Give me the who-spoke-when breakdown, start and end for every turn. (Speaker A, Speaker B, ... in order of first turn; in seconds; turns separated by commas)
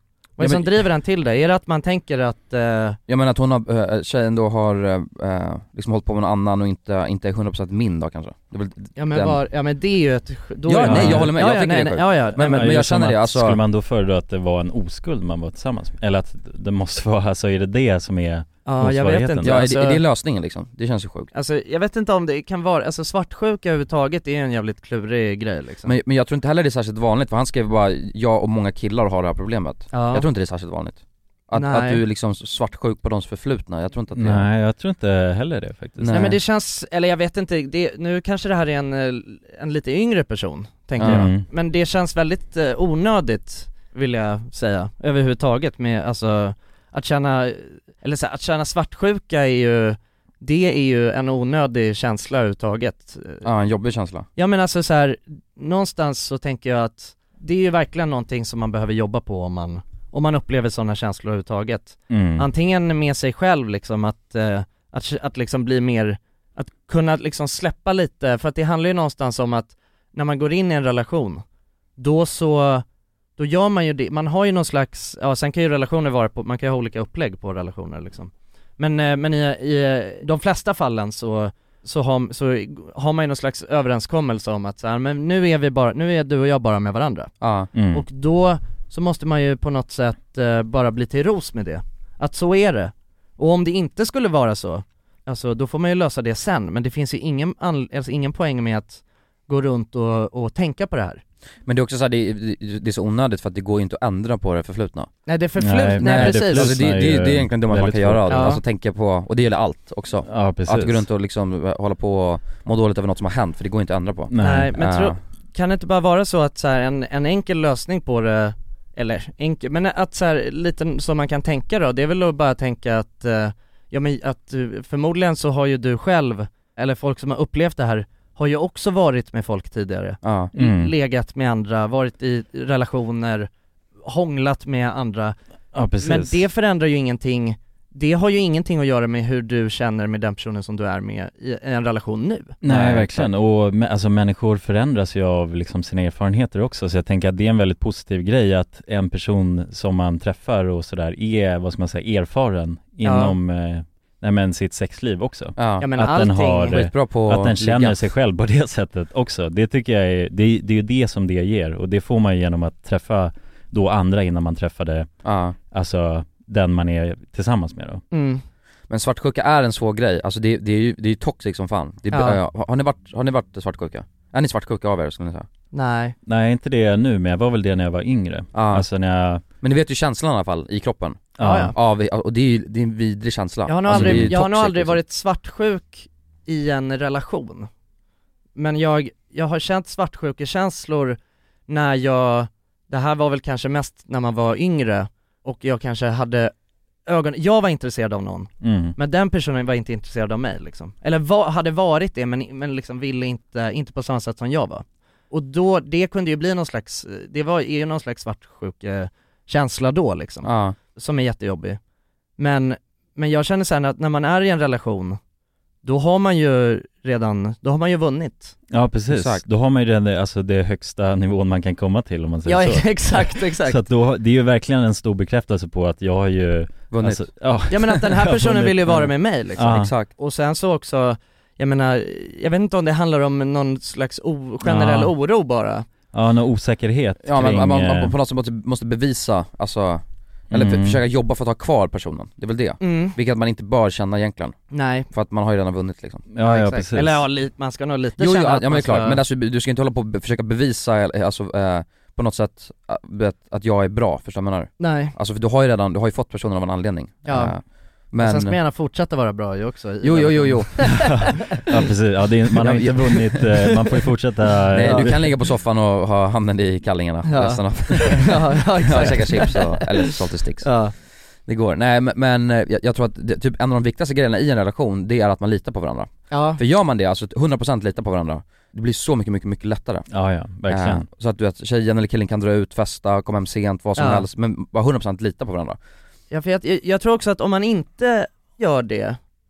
Speaker A: 0.4-3.0, Speaker B: 0.4-0.7, Speaker B: 3.1-9.4, Speaker A: 9.0-12.6, Speaker B: 10.7-13.6, Speaker C: 10.9-11.3, Speaker C: 12.4-19.6, Speaker A: 18.7-20.0, Speaker B: 19.4-21.3, Speaker A: 21.3-25.9, Speaker B: 25.9-34.5, Speaker A: 29.9-30.3, Speaker A: 31.6-32.0, Speaker C: 34.1-36.2, Speaker B: 36.0-36.4, Speaker A: 36.1-53.5, Speaker B: 41.0-41.3, Speaker C: 41.0-41.5, Speaker B: 53.4-54.3, Speaker A: 54.4-71.4, Speaker C: 62.1-62.5, Speaker A: 72.0-72.8, Speaker A: 73.4-87.3, Speaker B: 87.4-87.7, Speaker C: 87.7-88.0, Speaker A: 87.9-101.2, Speaker B: 101.7-105.1, Speaker A: 105.3-106.8, Speaker C: 105.6-108.5, Speaker B: 106.0-115.2, Speaker A: 108.3-108.6, Speaker C: 110.3-111.0, Speaker C: 114.3-114.7, Speaker A: 114.4-133.5, Speaker B: 130.2-130.5, Speaker C: 130.6-130.9, Speaker A: 134.1-135.4, Speaker C: 135.7-136.4, Speaker A: 136.0-142.6, Speaker C: 142.6-165.1, Speaker B: 142.7-143.3, Speaker A: 153.0-153.4, Speaker B: 155.6-155.9, Speaker A: 155.8-156.8, Speaker B: 156.7-158.0, Speaker B: 165.2-165.6, Speaker C: 165.7-168.0, Speaker A: 168.1-168.4, Speaker B: 168.9-175.5, Speaker A: 172.1-172.4, Speaker A: 175.7-176.2, Speaker C: 176.3-179.4, Speaker B: 178.5-178.9, Speaker B: 179.6-185.0, Speaker C: 181.4-181.8, Speaker A: 181.4-181.7, Speaker A: 183.7-187.7, Speaker C: 183.9-184.3, Speaker A: 188.6-196.5, Speaker A: 197.1-211.8, Speaker C: 198.6-199.0, Speaker B: 210.4-210.8, Speaker A: 212.4-215.2, Speaker A: 215.8-218.6, Speaker C: 218.7-229.9, Speaker B: 219.1-219.4, Speaker A: 222.5-223.8, Speaker B: 226.9-227.3, Speaker A: 227.7-235.9, Speaker B: 229.6-230.1, Speaker C: 234.6-235.1, Speaker C: 236.1-238.1, Speaker B: 237.2-244.6, Speaker C: 240.5-241.0, Speaker A: 242.8-243.2, Speaker A: 244.7-245.1, Speaker B: 245.1-246.2, Speaker C: 246.3-247.2, Speaker A: 246.4-249.2, Speaker B: 248.2-258.6, Speaker A: 254.8-255.2, Speaker A: 257.2-257.5, Speaker A: 258.2-261.6, Speaker B: 260.0-261.2, Speaker C: 260.9-265.2, Speaker B: 262.6-262.9, Speaker A: 262.6-263.7, Speaker B: 264.7-270.7, Speaker A: 264.8-265.1, Speaker A: 267.2-270.9, Speaker B: 271.5-280.1, Speaker A: 276.3-276.6, Speaker C: 280.1-281.1, Speaker B: 280.7-285.8, Speaker A: 284.0-284.2, Speaker A: 286.3-289.2